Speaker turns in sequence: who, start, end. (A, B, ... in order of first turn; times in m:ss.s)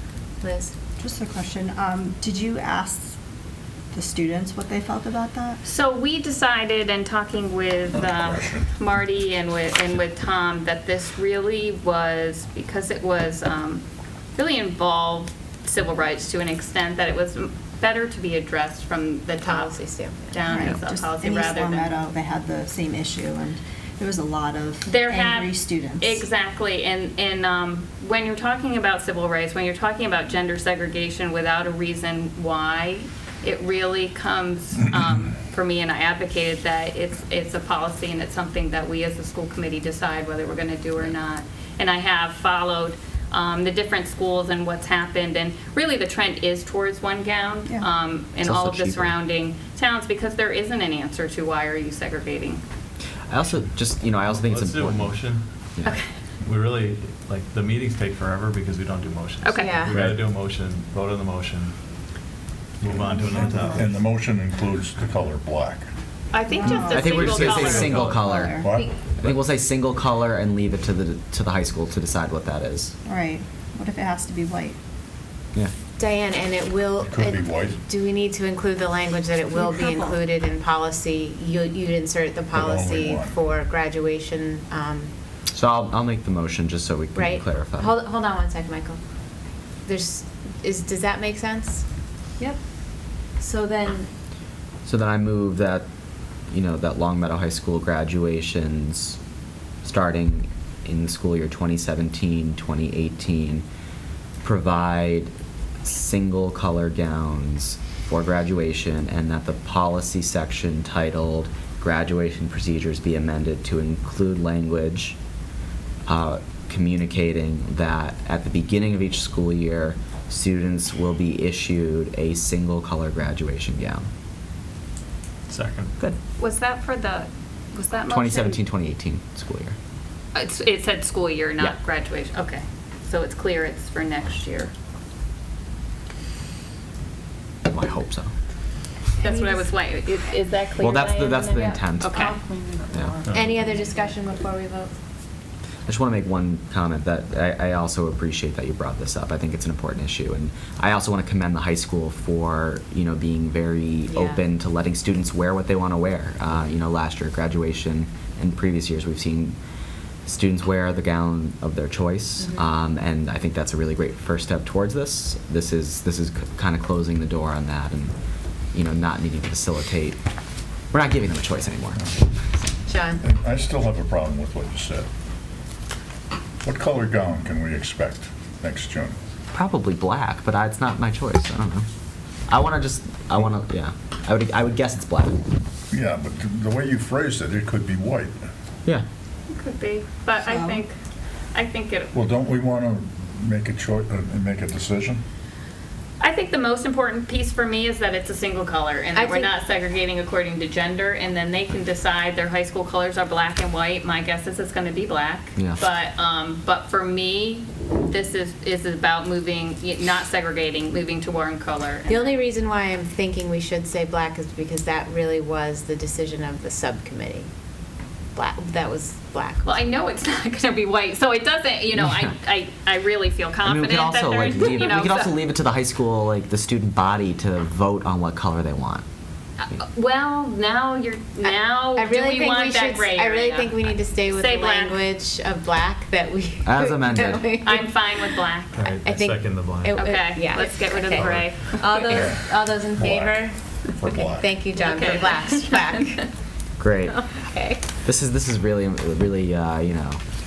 0:00.4-0:00.8 A
0:01.0-0:03.2 B
0:03.9-0:05.6 B
0:05.6-0:13.8 C
0:08.1-0:08.6 D
0:14.4-0:19.7 C
0:19.4-0:20.4 A
0:20.3-0:22.0 C
0:20.4-0:26.2 B
0:24.9-0:52.6 C
0:48.4-0:49.2 E
0:53.3-0:55.2 E
0:54.3-0:55.4 F
0:55.8-0:56.1 C
0:56.4-1:01.7 F
0:59.4-0:59.8 C
0:59.6-1:00.0 A
1:02.8-1:04.0 F
1:03.1-1:03.9 B
1:03.3-1:05.8 D
1:06.3-1:08.1 C
1:06.5-1:07.2 B
1:06.6-1:12.9 E
1:07.2-1:07.5 D
1:07.3-1:08.2 F
1:08.1-1:08.7 B
1:08.6-1:08.9 D
1:08.8-1:09.3 F
1:13.0-1:14.8 B
1:16.0-1:25.1 A
1:17.0-1:17.8 D
1:19.6-1:20.1 B
1:22.5-1:23.4 D
1:25.5-1:27.9 E
1:27.1-1:29.0 A
1:29.8-1:31.8 A
1:33.4-1:34.1 A
1:34.8-1:35.8 E
1:36.5-1:39.2 E
1:39.8-1:43.6 E
1:44.4-1:45.3 E
1:45.8-1:55.2 E
1:56.0-2:04.1 E
2:05.5-2:05.9 F
2:06.4-2:08.6 C
2:08.1-2:09.8 E
2:10.3-2:14.7 C
2:17.6-2:18.3 E
2:19.2-2:22.4 C
2:20.8-2:22.3 E
2:22.9-2:23.2 E
2:23.3-2:24.9 A
2:25.8-2:39.6 E
2:34.1-2:34.4 A
2:40.2-2:48.1 E
2:42.4-2:42.7 A
2:48.7-2:50.2 E
2:50.9-2:52.1 E
2:52.8-2:53.2 A
2:53.2-2:55.1 D
2:56.6-2:59.2 D
2:59.5-3:01.9 E
3:02.5-3:05.4 E
3:05.9-3:08.4 D
3:09.5-3:10.9 C
3:10.5-3:10.8 B
3:11.5-3:12.1 C
3:12.1-3:15.2 D
3:16.2-3:32.3 C
3:19.1-3:19.5 A
3:32.1-3:37.5 A
3:38.4-3:39.9 A
3:39.6-3:45.3 C
3:43.6-3:49.0 E
3:49.6-3:55.0 C
3:51.4-3:58.3 A
3:56.6-3:57.4 E
3:57.6-3:58.8 C
3:58.7-4:00.0 F
3:58.9-4:06.3 A
3:59.9-4:02.2 C
4:01.1-4:01.8 F
4:02.1-4:02.4 D
4:02.9-4:04.5 D
4:04.8-4:05.8 C
4:06.8-4:07.2 E
4:07.1-4:07.8 A
4:08.0-4:10.2 E